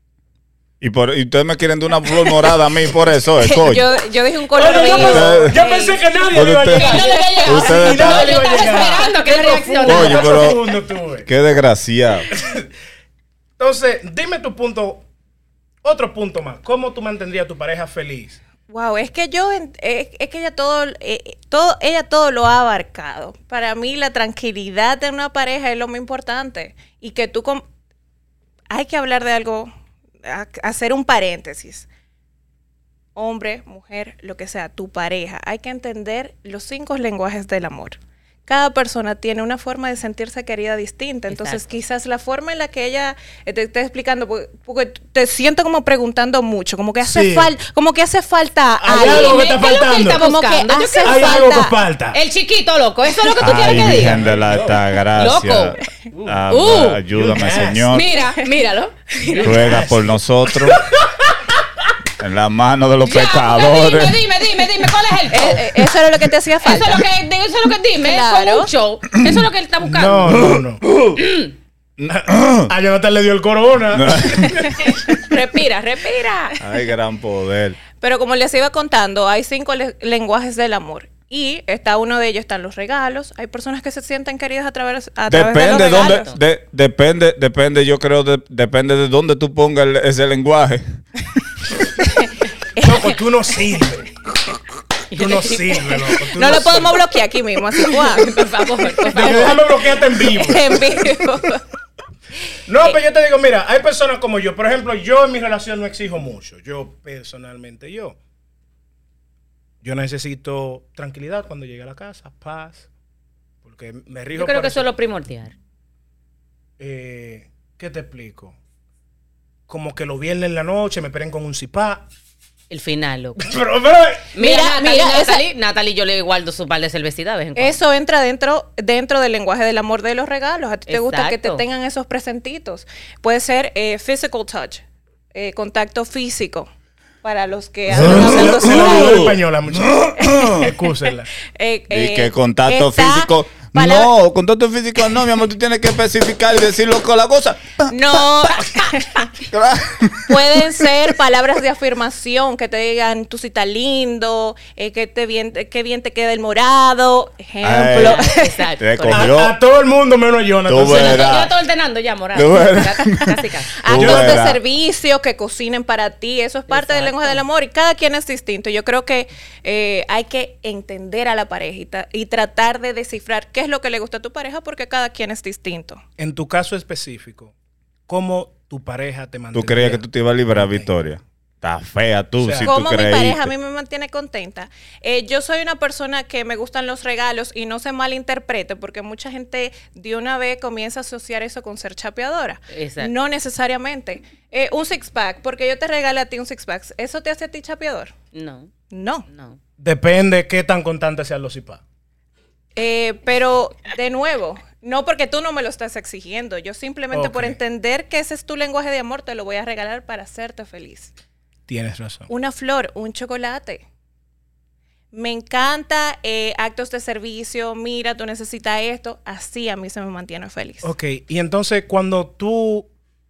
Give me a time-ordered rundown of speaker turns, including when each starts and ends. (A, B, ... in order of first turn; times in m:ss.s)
0:00.8-0:03.8 A
0:03.4-0:06.0 B
0:04.5-0:11.3 C
0:04.8-0:05.6 A
0:06.3-0:08.4 A
0:06.8-0:10.4 D
0:06.8-0:09.2 B
0:09.8-0:10.7 A
0:11.2-0:12.3 A
0:12.3-0:12.7 C
0:13.6-0:15.0 C
0:15.8-0:18.4 C
0:18.7-0:27.6 B
0:28.7-0:29.7 B
0:30.2-0:31.9 B
0:33.1-0:49.4 B
0:41.3-0:41.6 D
0:47.0-0:47.5 C
0:48.8-0:50.2 C
0:48.9-0:51.5 D
0:50.1-0:51.8 B
0:51.0-0:52.2 C
0:52.1-0:54.2 D
0:53.4-0:58.1 A
0:53.5-0:54.8 C
0:55.1-0:55.8 D
0:56.5-0:57.0 D
0:57.1-0:57.9 C
0:57.9-0:59.7 D
0:59.3-1:00.2 C
0:59.4-1:00.8 A
1:01.0-1:01.4 D
1:02.2-1:04.2 A
1:03.0-1:05.9 D
1:05.3-1:07.0 B
1:06.6-1:10.5 D
1:08.0-1:08.7 B
1:09.8-1:11.0 C
1:11.1-1:11.5 D
1:12.0-1:12.7 A
1:12.1-1:14.9 C
1:13.9-1:14.7 A
1:14.8-1:16.6 D
1:16.6-1:17.8 A
1:18.0-1:26.3 B
1:25.3-1:30.8 A
1:25.7-1:26.2 D
1:32.0-1:33.1 B
1:32.8-1:34.1 C
1:35.1-1:36.1 D
1:35.1-1:37.0 C
1:36.4-1:39.6 B
1:37.9-1:39.7 D
1:39.1-1:41.1 C
1:40.2-1:41.6 B
1:42.7-1:48.2 C
1:49.8-1:52.9 C
1:53.6-1:54.8 C
1:54.3-1:55.5 D
1:56.8-1:58.5 C
1:59.7-2:02.0 C
2:02.7-2:03.4 D
2:03.4-2:04.3 C
2:04.3-2:07.8 D
2:04.4-2:05.4 B
2:07.6-2:14.8 B
2:10.9-2:11.6 D
2:15.3-2:16.7 B
2:17.2-2:19.4 B
2:17.9-2:21.3 C
2:17.9-2:19.4 A
2:20.0-2:20.6 A
2:20.2-2:20.9 B
2:21.4-2:24.1 B
2:21.9-2:28.6 A
2:27.9-2:29.3 B
2:29.5-2:30.8 A
2:30.2-2:38.6 B
2:37.6-2:39.5 A
2:37.9-2:39.3 D
2:39.1-2:41.3 C
2:40.6-2:41.5 A
2:40.8-2:43.7 D
2:42.3-2:43.3 A
2:43.8-2:56.0 B
2:43.8-2:44.6 A
2:44.0-2:44.4 C
2:46.7-2:47.4 D
2:56.2-2:57.5 C
2:58.1-3:00.9 C
2:59.5-3:03.5 A
3:02.4-3:02.7 C
3:02.6-3:18.1 B
3:12.7-3:13.1 D
3:18.3-3:18.7 D
3:18.9-3:19.2 B
3:19.3-3:19.6 D
3:19.8-3:21.8 C
3:22.7-3:31.1 B
3:27.1-3:27.6 C
3:31.7-3:32.3 C
3:32.3-3:33.8 B
3:35.1-3:40.9 B
3:40.8-3:42.9 C